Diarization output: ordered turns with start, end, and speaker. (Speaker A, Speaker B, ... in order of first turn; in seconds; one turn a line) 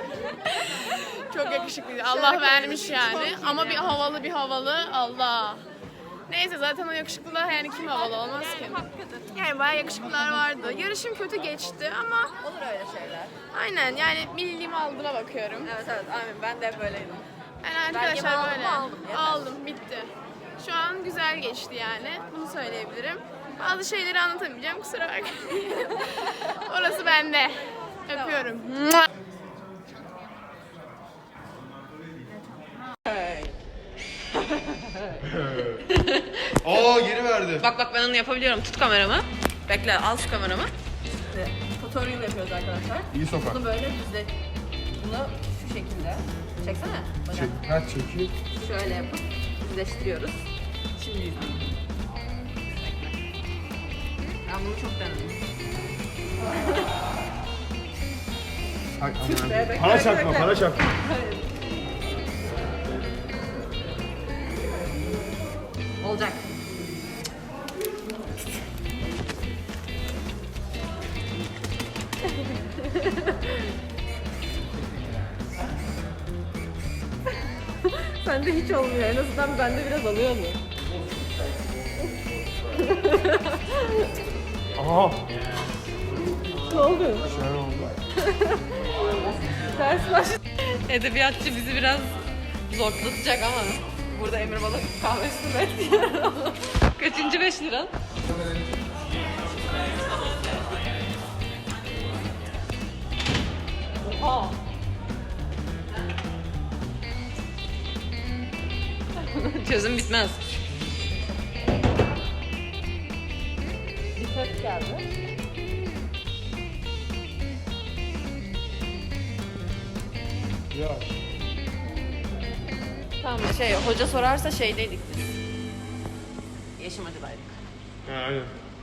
Speaker A: 0.5-5.7
Speaker B: 1.5-4.0
Speaker A: 6.3-12.3
Speaker B: 8.5-9.0
Speaker B: 12.4-13.3
Speaker A: 13.5-15.7
Speaker B: 15.6-17.3
Speaker A: 17.6-29.1
Speaker B: 17.8-19.6
Speaker B: 28.1-28.6
Speaker B: 33.1-33.6
Speaker C: 35.2-35.8
Speaker B: 35.9-36.8
Speaker C: 36.6-37.6
Speaker B: 37.5-40.7
Speaker B: 41.3-44.3
Speaker C: 43.1-43.6
Speaker B: 45.0-47.6
Speaker C: 47.3-48.3
Speaker B: 48.5-50.4
Speaker B: 51.0-51.6
Speaker B: 52.7-53.1
Speaker B: 54.4-55.4
Speaker C: 59.0-60.8
Speaker B: 59.2-61.5
Speaker B: 66.0-66.4
Speaker B: 78.1-80.6
Speaker B: 82.9-83.5
Speaker C: 84.8-85.2
Speaker B: 86.7-87.3
Speaker C: 87.2-88.0
Speaker B: 88.3-88.6
Speaker B: 89.6-90.3
Speaker B: 90.8-92.2
Speaker B: 92.7-97.9
Speaker B: 109.2-110.4
Speaker B: 114.2-115.0
Speaker C: 120.7-121.1
Speaker B: 123.2-125.3
Speaker B: 126.8-127.5
Speaker C: 128.1-128.5